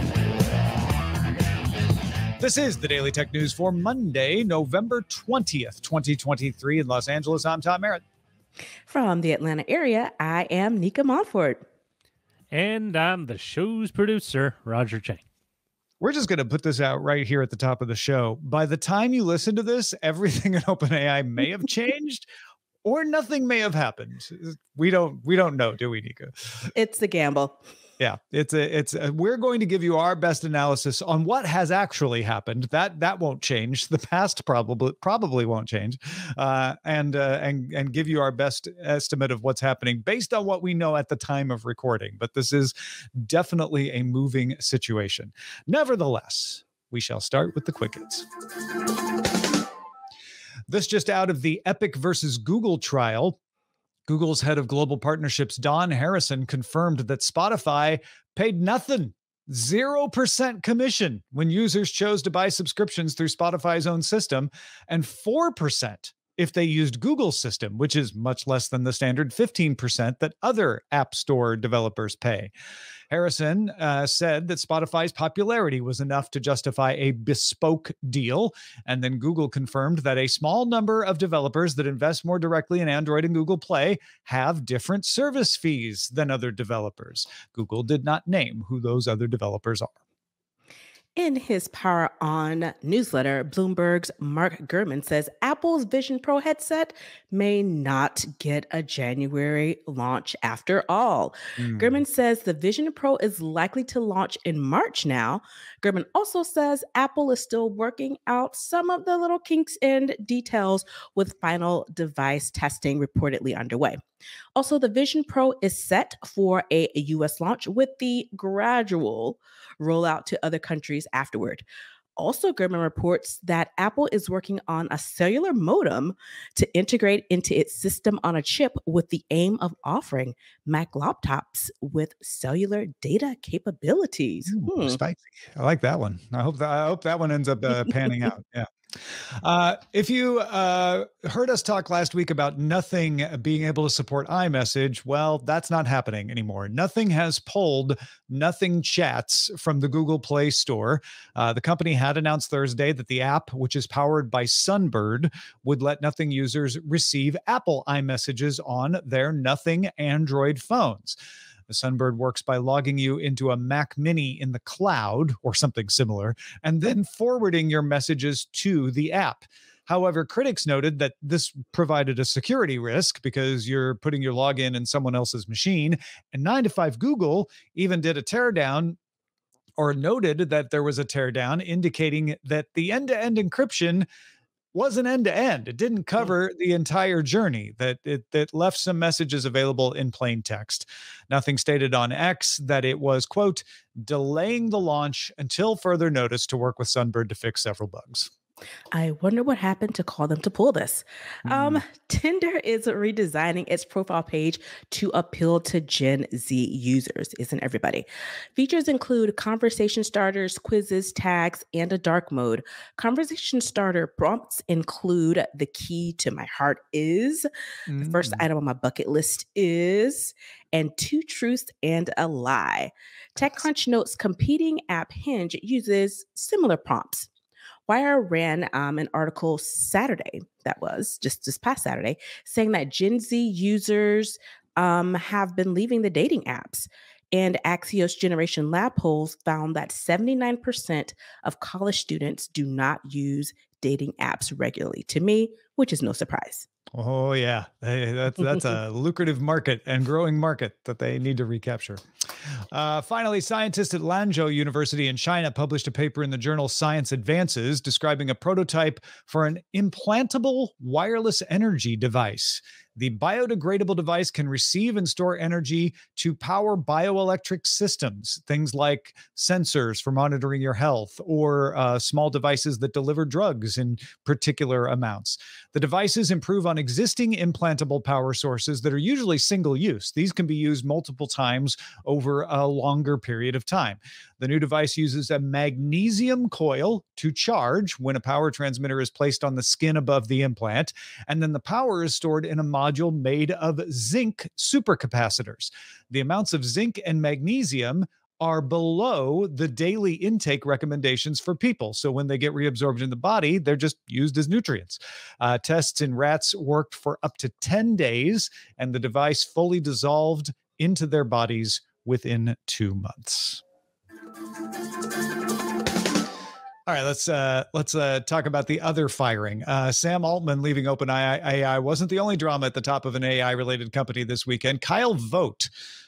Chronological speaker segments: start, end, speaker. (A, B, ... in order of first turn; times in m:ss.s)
0:02.4-0:08.0 A
0:08.9-0:11.6 B
0:12.5-0:15.2 C
0:16.0-0:22.2 A
0:22.8-0:26.3 A
0:26.7-0:27.6 B
0:28.0-0:48.3 A
0:50.7-0:53.4 A
0:54.1-1:12.5 A
1:13.1-1:29.9 A
1:31.2-1:54.0 B
1:41.6-1:42.0 A
1:54.5-2:01.6 B
2:02.2-2:15.0 B
2:14.5-2:41.2 A
2:41.7-2:59.0 A
2:59.8-3:04.0 A
3:04.7-3:18.3 A
3:18.9-3:37.5 B
3:21.5-3:21.8 A
3:37.9-3:38.4 A
3:38.0-3:47.3 B
3:47.9-4:06.6 B
4:06.9-4:12.0 A
4:12.7-5:13.6 A
5:16.9-5:25.7 A